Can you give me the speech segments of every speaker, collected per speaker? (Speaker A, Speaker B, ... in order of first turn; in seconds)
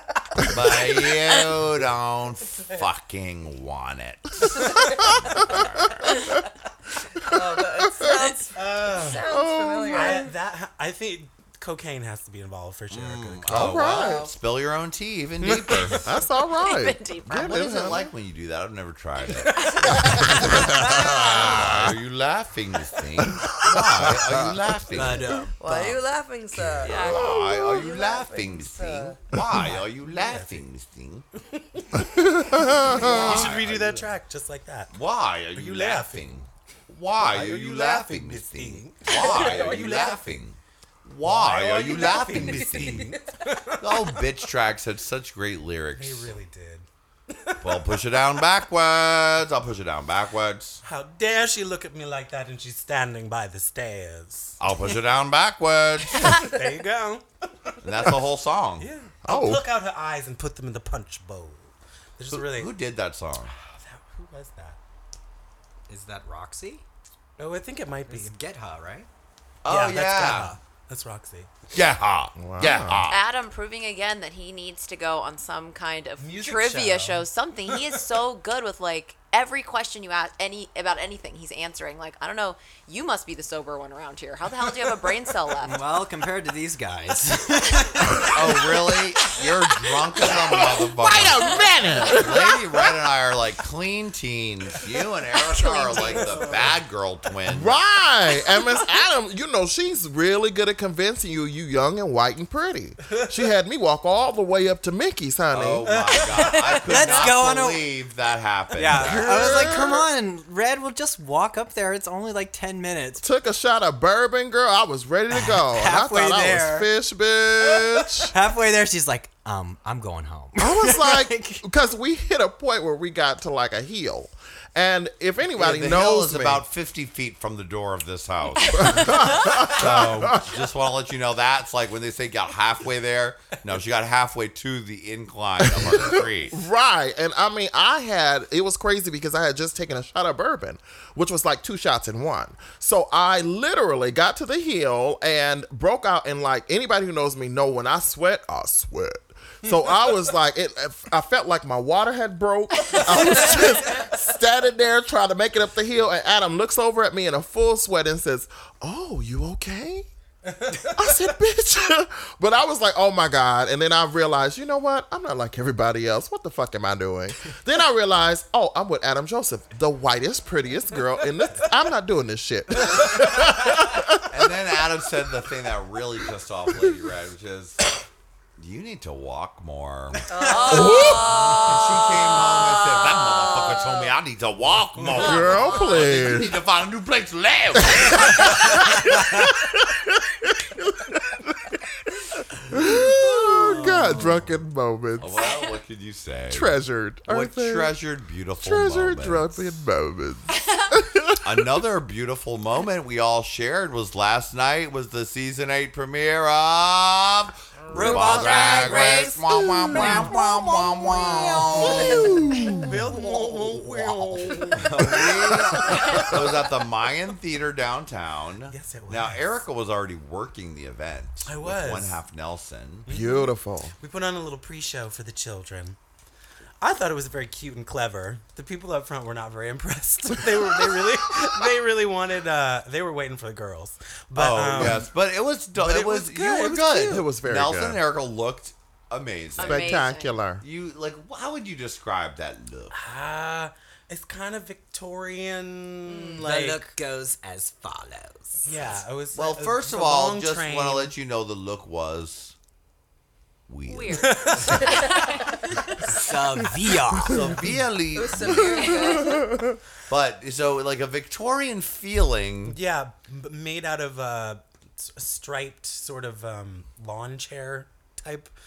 Speaker A: 0.5-6.1, 12.9-16.1, 17.4-25.4, 26.9-31.2, 32.8-34.1, 34.9-43.2, 43.8-46.3, 47.6-50.8, 54.6-56.4, 57.8-58.9, 62.3-63.5, 69.6-70.6, 71.7-73.2, 88.3-97.8, 105.5-109.8, 125.5-136.6, 174.3-177.9, 178.6-180.3, 180.9-189.2, 195.2-199.6, 201.4-223.1, 234.3-240.0, 240.6-242.9, 249.3-252.5, 253.7-254.9, 257.3-258.9, 260.1-262.8
Speaker B: 5.4-5.7, 7.3-8.2, 9.1-10.3, 13.5-14.3, 15.7-18.1, 20.0-21.9, 23.2-24.6, 26.6-27.8, 31.9-33.5, 59.2-59.6, 72.4-73.1, 90.4-92.6, 97.5-106.0, 109.1-110.1, 113.2-118.3, 120.5-126.6, 128.7-130.6, 135.6-160.1, 160.8-174.3, 180.7-181.5, 185.2-186.5, 187.8-191.7, 192.6-195.5, 196.5-197.9, 198.6-201.7, 209.5-210.3, 211.9-213.2, 214.7-216.5, 223.1-223.9, 234.8-235.1, 237.1-238.0, 239.6-240.6, 258.7-259.8
Speaker C: 7.2-10.3, 13.8-14.3, 25.6-29.2, 39.2-39.7, 180.5-180.9, 211.7-212.2, 246.1-246.4, 258.1-259.5
Speaker D: 8.5-9.2, 9.9-13.9, 15.5-16.1, 19.5-20.3, 23.9-24.2, 24.9-26.0, 26.7-27.2, 29.5-30.6, 31.8-34.9, 35.5-36.3, 37.2-40.4, 41.2-44.2, 45.9-47.9, 50.8-54.6, 56.1-57.7, 58.8-62.7, 63.5-64.8, 67.4-68.3, 69.7-71.5, 76.2-77.2, 95.9-96.8, 105.9-107.1, 108.9-109.3, 153.1-153.6, 160.5-161.1, 172.9-173.3, 180.3-181.3, 185.0-185.4, 188.2-188.5, 193.3-194.5, 208.0-208.7, 212.0-215.2, 215.8-216.3, 218.7-219.6, 221.4-222.2, 223.1-226.0, 226.8-235.1, 235.7-237.2, 242.9-246.8, 248.6-251.1, 254.2-255.2, 262.7-268.5
Speaker E: 16.6-17.8, 19.4-21.4, 26.9-27.2, 73.1-85.8, 95.5-96.6, 180.3-184.1, 185.2-186.2, 195.4-195.7, 200.6-200.9, 239.6-240.3, 253.9-255.9, 258.7-259.3
Speaker F: 65.9-66.8, 68.1-69.1, 85.6-88.7, 106.7-107.9, 108.8-113.2, 115.3-116.9, 117.6-121.6, 207.9-210.0, 246.4-249.0, 256.1-257.6